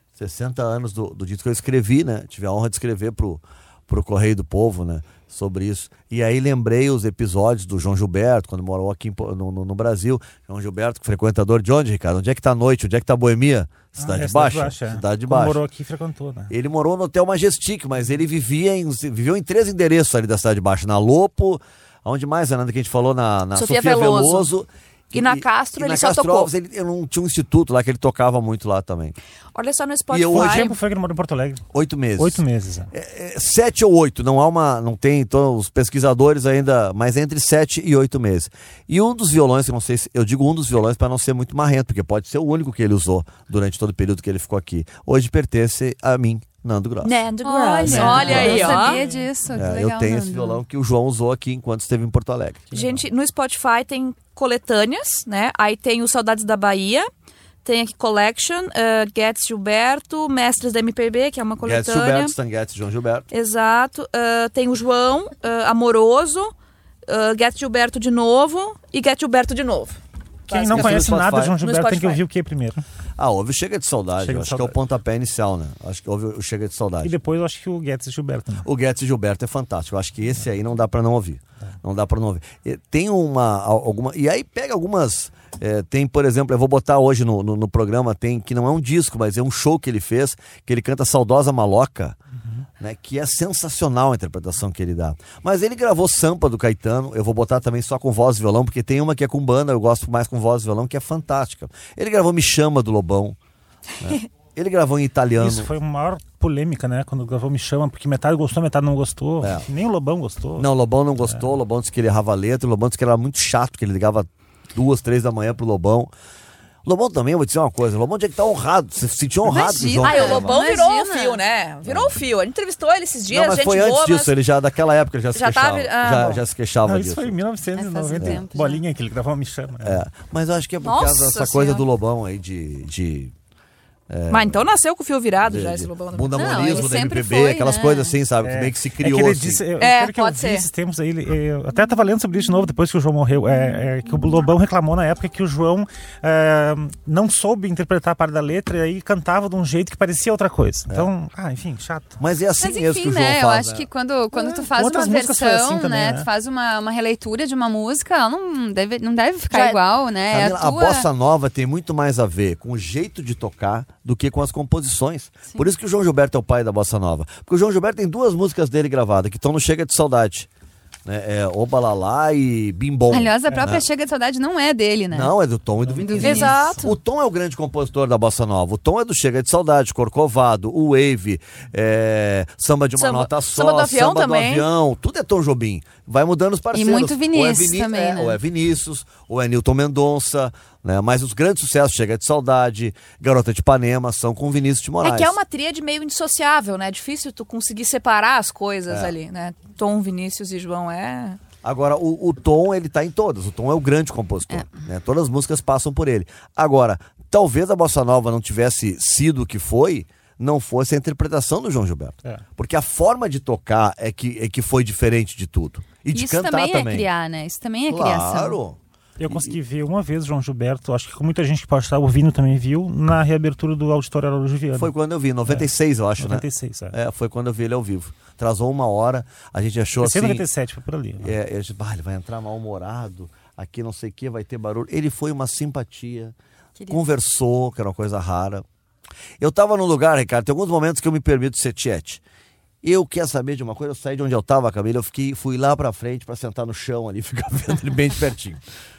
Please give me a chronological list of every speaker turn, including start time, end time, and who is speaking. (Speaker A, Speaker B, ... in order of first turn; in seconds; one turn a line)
Speaker A: 0.2-15.6
Speaker B: 14.0-16.5
Speaker A: 16.5-29.1
Speaker C: 23.5-24.5
Speaker C: 25.1-26.5
Speaker C: 29.5-30.7
Speaker A: 30.1-30.7
Speaker B: 30.3-31.6
Speaker A: 31.7-47.2
Speaker B: 32.2-32.9
Speaker C: 47.0-49.0
Speaker D: 47.4-50.6
Speaker B: 47.8-49.8
Speaker A: 47.9-48.9
Speaker A: 49.5-52.7
Speaker C: 52.7-57.1
Speaker B: 52.7-53.0
Speaker C: 57.6-62.3
Speaker A: 61.6-63.3
Speaker C: 63.3-66.5
Speaker C: 67.0-72.2
Speaker B: 70.5-72.8
Speaker A: 70.7-71.6
Speaker A: 73.2-77.1
Speaker B: 74.2-74.8
Speaker B: 77.0-78.7
Speaker A: 78.6-92.2
Speaker A: 92.8-103.4
Speaker A: 104.0-105.7
Speaker B: 105.4-110.7
Speaker A: 109.4-109.7
Speaker A: 110.6-116.1
Speaker A: 116.8-120.6
Speaker D: 119.4-121.4
Speaker C: 120.0-124.3
Speaker A: 121.8-122.2
Speaker A: 123.3-127.4
Speaker C: 125.3-126.4
Speaker B: 126.8-130.0
Speaker D: 127.8-128.8
Speaker A: 129.8-133.3
Speaker C: 130.8-131.9
Speaker A: 134.1-134.6
Speaker C: 134.3-136.9
Speaker A: 135.4-139.6
Speaker D: 136.3-138.1
Speaker B: 138.4-152.2
Speaker C: 139.8-140.7
Speaker A: 152.2-153.8
Speaker D: 152.6-161.1
Speaker B: 154.3-156.3
Speaker C: 159.5-159.8
Speaker A: 160.3-170.5
Speaker A: 171.0-173.8
Speaker D: 173.1-175.3
Speaker A: 175.1-195.4
Speaker B: 175.8-176.2
Speaker D: 176.0-176.8
Speaker C: 176.2-176.9
Speaker C: 183.0-184.7
Speaker D: 186.7-188.4
Speaker C: 195.0-201.4
Speaker A: 198.9-199.1
Speaker A: 201.6-217.1
Speaker D: 216.1-218.6
Speaker A: 217.9-218.8
Speaker B: 219.2-224.9
Speaker A: 219.3-219.6
Speaker A: 224.7-230.5
Speaker B: 225.4-226.9
Speaker B: 230.0-231.3
Speaker A: 231.2-236.3
Speaker D: 236.8-237.0
Speaker A: 236.9-238.6
Speaker A: 239.4-242.2
Speaker A: 242.8-248.6